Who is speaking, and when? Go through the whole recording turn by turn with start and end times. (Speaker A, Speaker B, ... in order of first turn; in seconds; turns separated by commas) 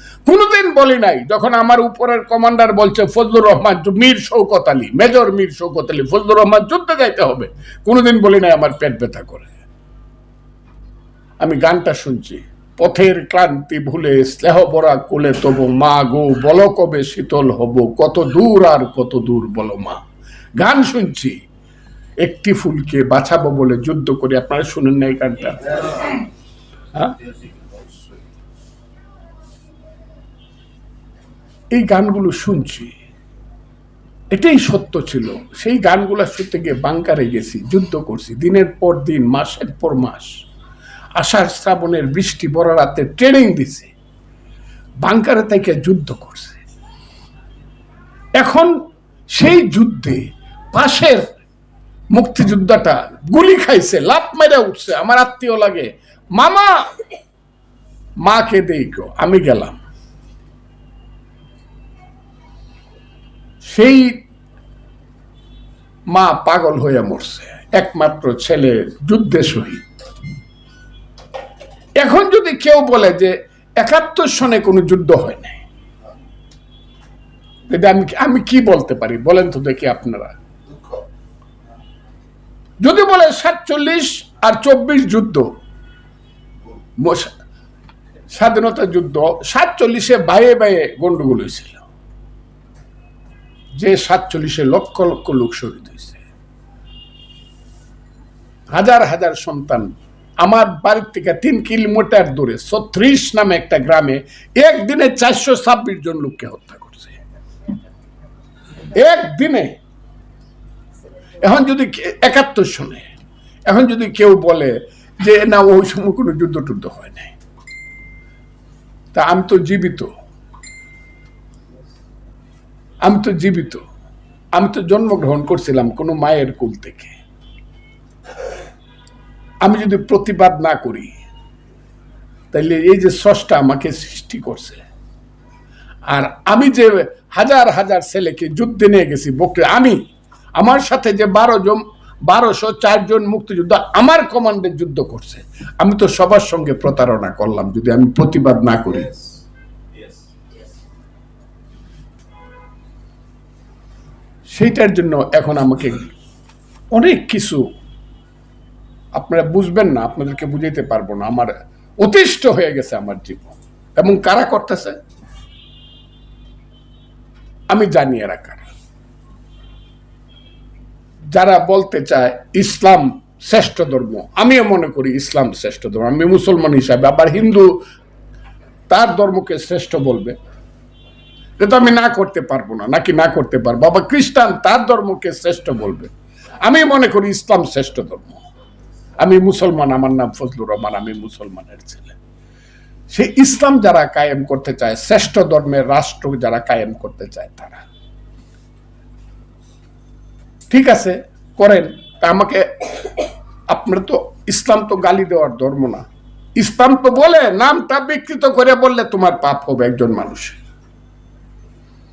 Speaker A: 0.2-9.6, Speaker A: 11.4-20.0, Speaker A: 20.6-21.4, Speaker A: 22.2-25.8, Speaker A: 31.7-32.9, Speaker A: 34.3-40.4, Speaker A: 41.2-43.9, Speaker A: 45.0-46.6, Speaker A: 48.4-48.7, Speaker A: 49.3-51.3, Speaker A: 52.1-56.9, Speaker A: 58.2-59.8, Speaker A: 63.6-64.2, Speaker A: 66.1-69.8, Speaker A: 72.0-75.6, Speaker A: 77.7-80.3, Speaker A: 82.8-85.5, Speaker A: 87.0-87.3, Speaker A: 88.3-91.8, Speaker A: 93.8-96.2, Speaker A: 98.7-107.2, Speaker A: 108.9-109.8, Speaker A: 111.4-113.1, Speaker A: 113.7-117.3, Speaker A: 119.1-120.1, Speaker A: 123.0-123.8, Speaker A: 124.5-127.2, Speaker A: 129.6-131.2, Speaker A: 132.5-134.8, Speaker A: 136.1-140.0, Speaker A: 140.6-149.1, Speaker A: 154.5-156.1, Speaker A: 156.9-157.7, Speaker A: 159.1-165.0, Speaker A: 167.7-168.7, Speaker A: 171.3-177.8, Speaker A: 178.9-180.3, Speaker A: 181.6-188.4, Speaker A: 189.2-192.2, Speaker A: 193.1-197.8, Speaker A: 200.7-203.1, Speaker A: 203.7-210.6